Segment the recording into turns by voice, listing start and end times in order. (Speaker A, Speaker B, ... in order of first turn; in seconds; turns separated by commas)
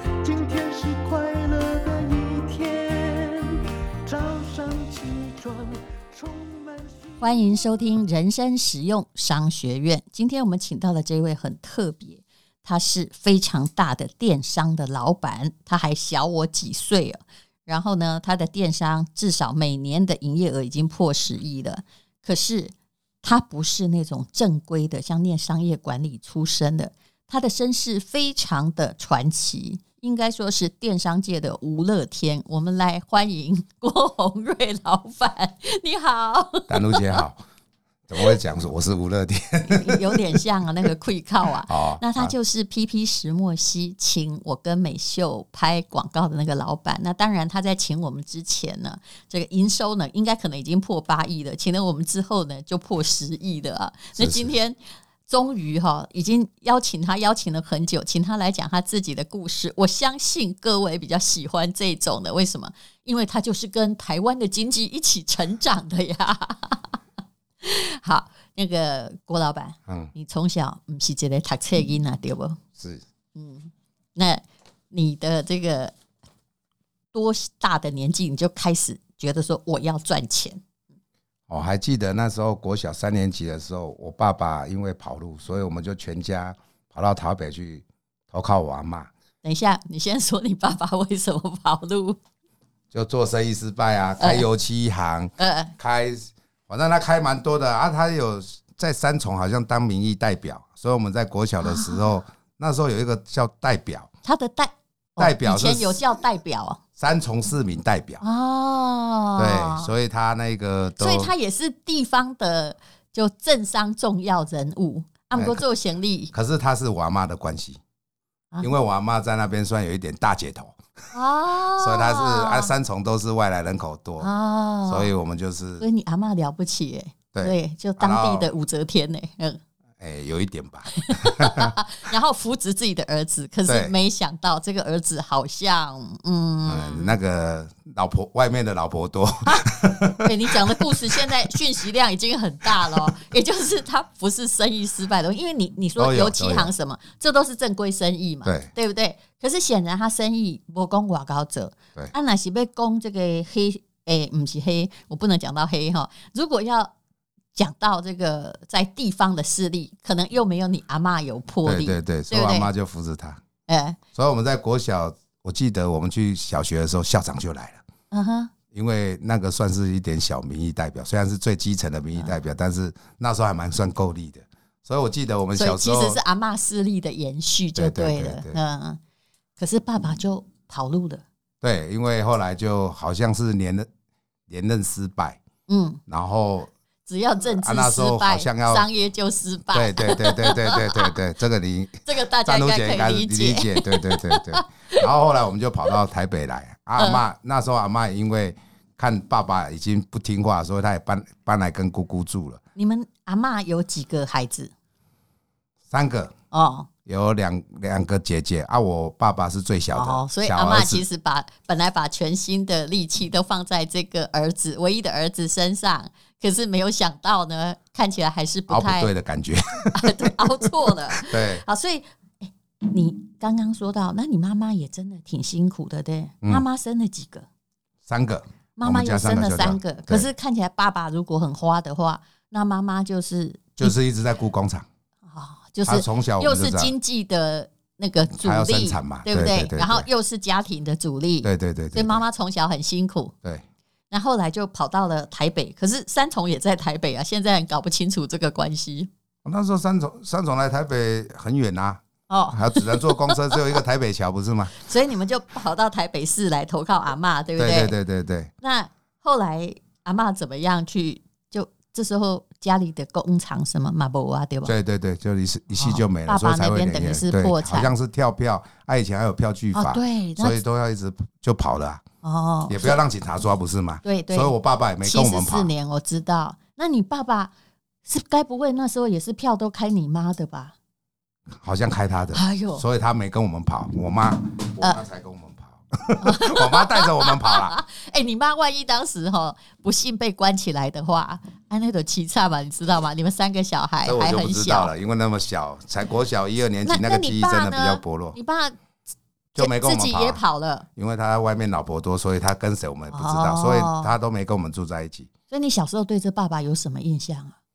Speaker A: 0.2-7.6, Speaker B: 7.2-37.2, Speaker C: 36.7-37.4, Speaker C: 38.1-40.4, Speaker B: 39.7-67.0, Speaker C: 41.7-42.3, Speaker C: 54.2-54.5, Speaker B: 67.6-72.6, Speaker C: 72.8-73.0, Speaker B: 73.4-76.0, Speaker B: 77.1-80.6, Speaker C: 81.5-89.1, Speaker B: 89.4-92.2, Speaker C: 92.9-104.1, Speaker B: 94.2-94.5, Speaker B: 95.4-95.7, Speaker B: 101.6-102.1, Speaker B: 104.2-106.8, Speaker C: 105.2-106.0, Speaker C: 107.0-108.2, Speaker B: 108.2-109.9, Speaker C: 109.4-111.3, Speaker B: 111.0-116.3, Speaker C: 115.4-115.6, Speaker C: 116.3-117.8, Speaker C: 118.6-120.8, Speaker B: 121.1-122.7, Speaker C: 121.8-124.3, Speaker B: 124.2-125.1, Speaker C: 124.9-125.8, Speaker B: 125.8-129.6, Speaker C: 127.3-128.5, Speaker C: 130.0-131.7, Speaker B: 131.0-137.1, Speaker C: 133.7-133.9, Speaker C: 136.7-141.5, Speaker B: 139.4-156.9, Speaker C: 142.7-143.1, Speaker C: 146.0-146.7, Speaker C: 148.4-148.7, Speaker B: 157.6-162.7, Speaker C: 161.7-163.4, Speaker B: 163.7-164.0, Speaker C: 164.2-167.8, Speaker B: 168.1-168.5, Speaker C: 168.7-176.2, Speaker B: 175.6-179.0, Speaker C: 177.8-178.6, Speaker B: 179.6-181.2, Speaker C: 181.6-183.9, Speaker C: 184.5-185.4, Speaker B: 185.7-186.0, Speaker C: 186.1-186.7, Speaker B: 187.1-191.2, Speaker C: 187.4-188.9, Speaker C: 189.7-202.6, Speaker B: 192.1-195.1, Speaker B: 202.8-204.7, Speaker C: 205.9-206.3, Speaker B: 206.5-206.9, Speaker C: 207.1-211.0, Speaker B: 209.9-219.1, Speaker C: 218.7-221.6, Speaker B: 219.9-227.5, Speaker C: 228.1-230.3, Speaker B: 228.8-233.9, Speaker C: 233.8-234.9, Speaker B: 235.3-243.3, Speaker C: 235.8-236.9, Speaker C: 238.4-240.1, Speaker C: 241.4-242.2, Speaker B: 244.1-249.1, Speaker C: 249.4-252.0, Speaker B: 252.3-253.6, Speaker C: 252.5-254.8, Speaker B: 254.8-257.9, Speaker C: 257.6-258.5, Speaker B: 258.6-264.7, Speaker C: 264.6-272.0, Speaker B: 265.7-267.9, Speaker B: 269.8-270.6, Speaker B: 272.2-273.0, Speaker C: 272.7-275.7, Speaker B: 274.0-277.5, Speaker B: 278.1-280.7, Speaker C: 281.6-287.8, Speaker B: 282.3-282.8, Speaker B: 286.2-294.9, Speaker C: 294.1-298.4, Speaker B: 296.9-298.8, Speaker C: 299.6-300.4, Speaker B: 299.6-300.9, Speaker C: 301.0-305.3, Speaker B: 303.1-304.1, Speaker B: 305.5-307.6